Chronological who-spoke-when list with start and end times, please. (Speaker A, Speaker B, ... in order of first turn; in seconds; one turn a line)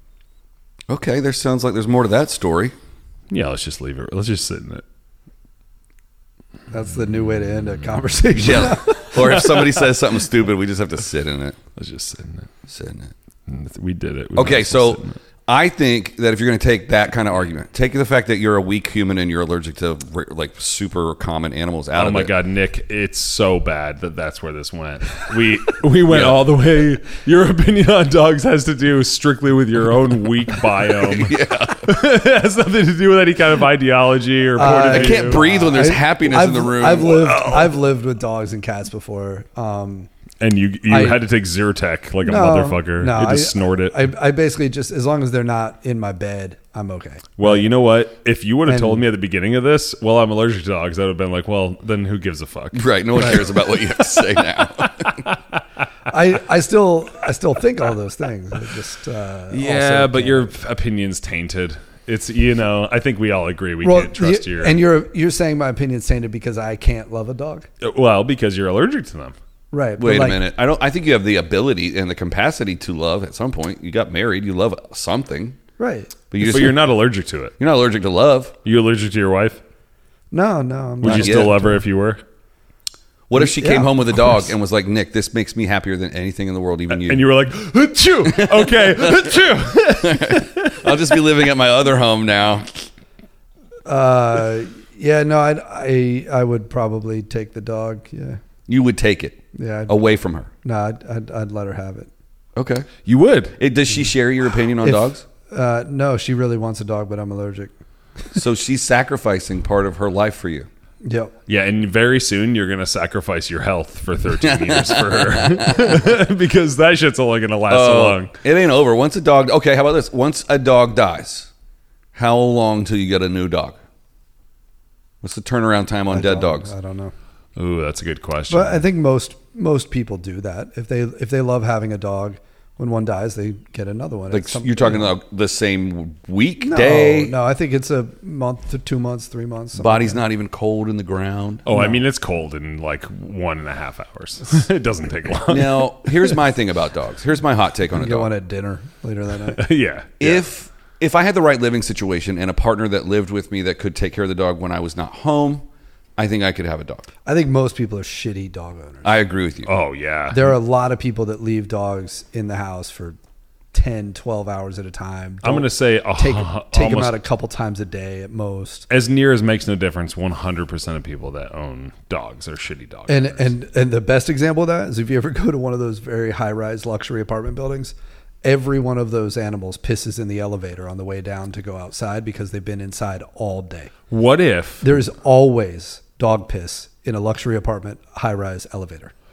Speaker A: 0.9-2.7
Speaker B: 3.3-4.8
Speaker C: 6.7-9.5
Speaker A: 8.3-11.6
Speaker B: 11.8-12.5
Speaker A: 12.7-13.1
Speaker B: 13.5-15.2
Speaker A: 14.4-22.3
Speaker B: 21.9-35.5
Speaker A: 26.1-26.4
Speaker A: 31.0-31.9
Speaker C: 34.5-40.1
Speaker A: 34.9-37.6
Speaker B: 40.4-44.0
Speaker C: 40.9-41.2
Speaker C: 42.2-47.6
Speaker B: 47.4-53.5
Speaker C: 48.7-49.1
Speaker A: 52.7-55.2
Speaker C: 56.1-60.5
Speaker B: 59.5-64.8
Speaker C: 63.8-67.7
Speaker B: 67.8-69.4
Speaker C: 69.7-70.4
Speaker A: 70.0-75.6
Speaker C: 75.8-76.2
Speaker A: 76.3-76.8
Speaker B: 76.4-77.6
Speaker A: 77.6-78.5
Speaker B: 78.7-79.6
Speaker C: 80.3-81.8
Speaker B: 81.0-82.2
Speaker A: 81.0-81.5
Speaker A: 83.3-87.2
Speaker C: 83.3-84.5
Speaker B: 86.9-91.2
Speaker A: 88.3-89.3
Speaker A: 89.9-92.7
Speaker C: 93.9-98.4
Speaker A: 98.7-100.5
Speaker C: 99.5-100.0
Speaker C: 100.6-102.1
Speaker A: 102.6-102.9
Speaker B: 103.0-103.6
Speaker A: 103.6-105.2
Speaker C: 104.8-107.8
Speaker A: 108.3-110.7
Speaker C: 111.0-111.3
Speaker B: 111.5-118.3
Speaker A: 114.4-116.0
Speaker A: 117.7-121.5
Speaker A: 122.2-123.8
Speaker A: 125.2-126.7
Speaker C: 126.1-127.1
Speaker B: 127.6-128.8
Speaker C: 128.5-135.1
Speaker A: 134.3-137.3
Speaker C: 136.6-140.2
Speaker A: 139.8-141.7
Speaker B: 141.7-146.3
Speaker C: 141.7-142.0
Speaker A: 145.5-148.3
Speaker C: 147.9-149.6
Speaker B: 149.5-150.4
Speaker A: 150.2-155.7
Speaker A: 156.2-157.1
Speaker C: 157.2-159.2
Speaker A: 159.0-159.7
Speaker B: 159.7-160.5
Speaker C: 160.3-163.2
Speaker C: 163.7-168.9
Speaker B: 165.4-167.2
Speaker B: 168.9-173.5
Speaker C: 173.1-183.9
Speaker B: 184.1-184.9
Speaker C: 184.8-189.1